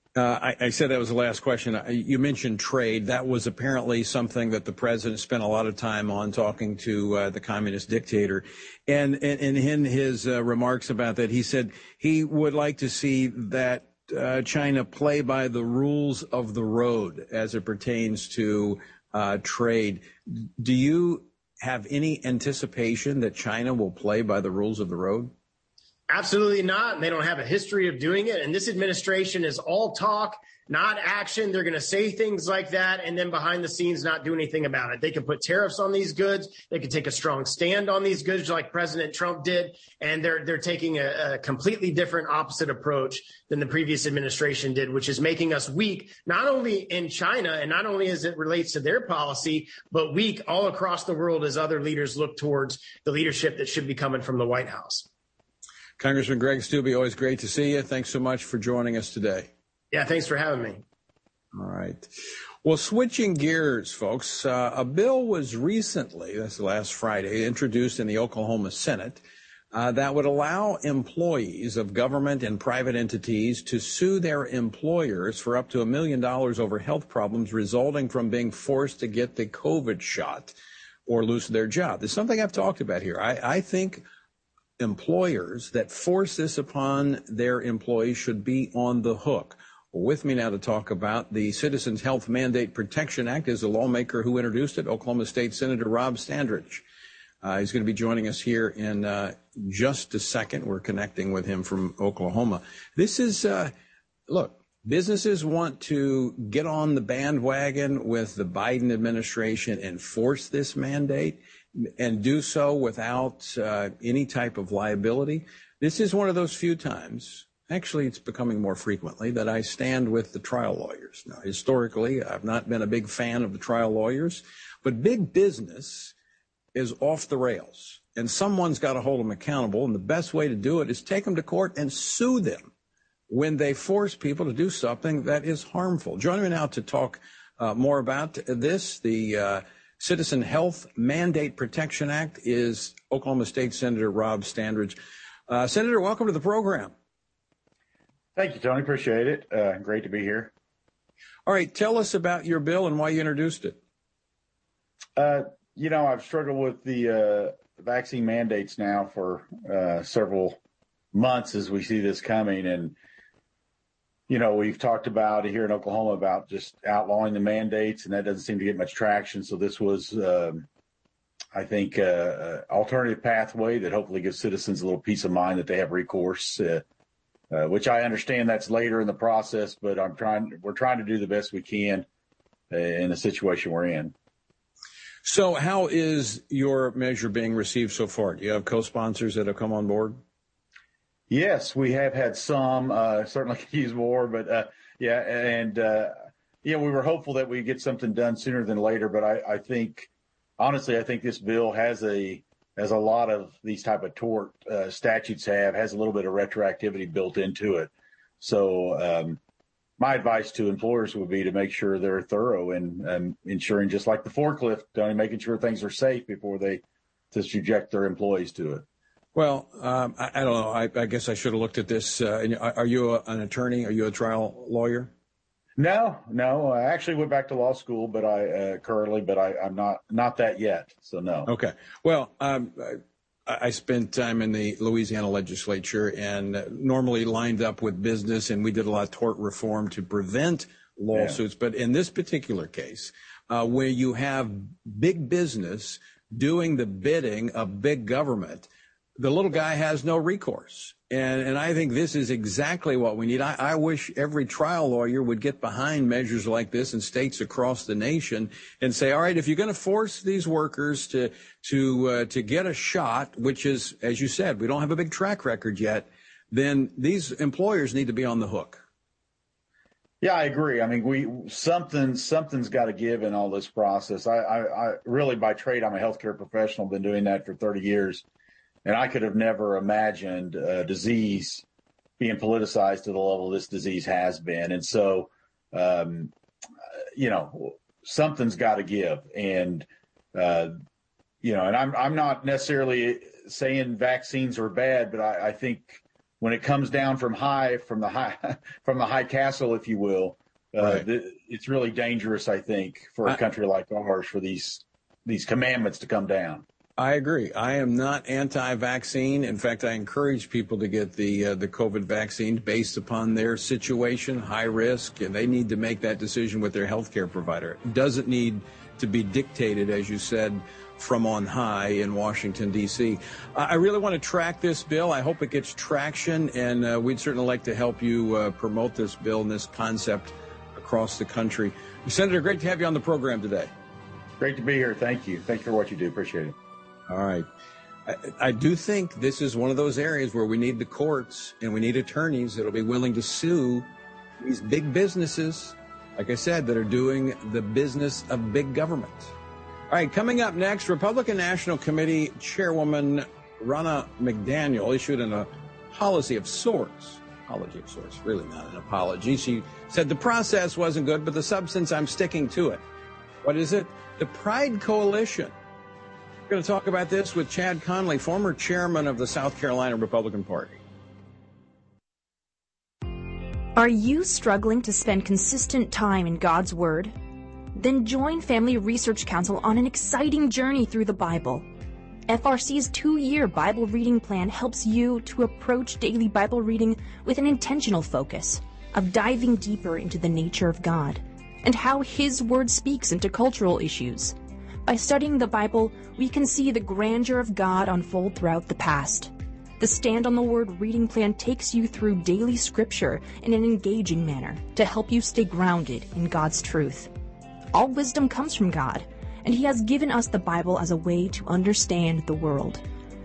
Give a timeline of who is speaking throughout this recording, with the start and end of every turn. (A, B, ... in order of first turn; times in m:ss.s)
0:00.2-0:25.3 A
0:26.1-0:55.1 B
0:56.0-0:59.5 A
0:59.9-1:00.8 B
1:01.5-1:02.1 A
1:02.6-1:20.6 A
1:21.1-1:24.0 A
1:24.8-1:36.8 A
1:37.4-1:43.7 A
1:44.3-2:06.1 A
2:06.8-2:12.7 A
2:13.3-2:25.0 A
2:25.5-2:26.9 A
2:28.4-2:30.5 C
2:31.5-2:33.8 A
2:35.2-2:40.6 C
2:41.1-2:43.0 C
2:44.3-2:50.7 C
2:51.5-2:56.8 C
2:57.5-3:02.1 C
3:02.7-3:04.1 C
3:05.2-3:10.2 A
3:11.3-3:29.4 C
3:30.0-3:38.8 C
3:39.4-3:45.1 A
3:45.8-3:51.5 C
3:51.5-4:28.8 A
4:01.1-4:01.4 C
4:30.2-4:38.2 C
4:38.8-4:41.6 C
4:42.2-4:46.3 C
4:47.1-4:50.8 C
4:51.4-5:06.6 C
5:00.8-5:01.0 A
5:07.0-5:33.7 A
5:34.4-5:36.6 C
5:37.1-5:37.5 A
5:38.1-5:43.9 A
5:44.4-5:49.3 A
5:49.9-6:02.8 A
6:03.4-6:05.5 A
6:06.5-6:10.8 A
6:13.8-6:17.2 D
6:17.7-6:21.7 D
6:22.3-6:47.1 D
6:47.7-6:52.8 D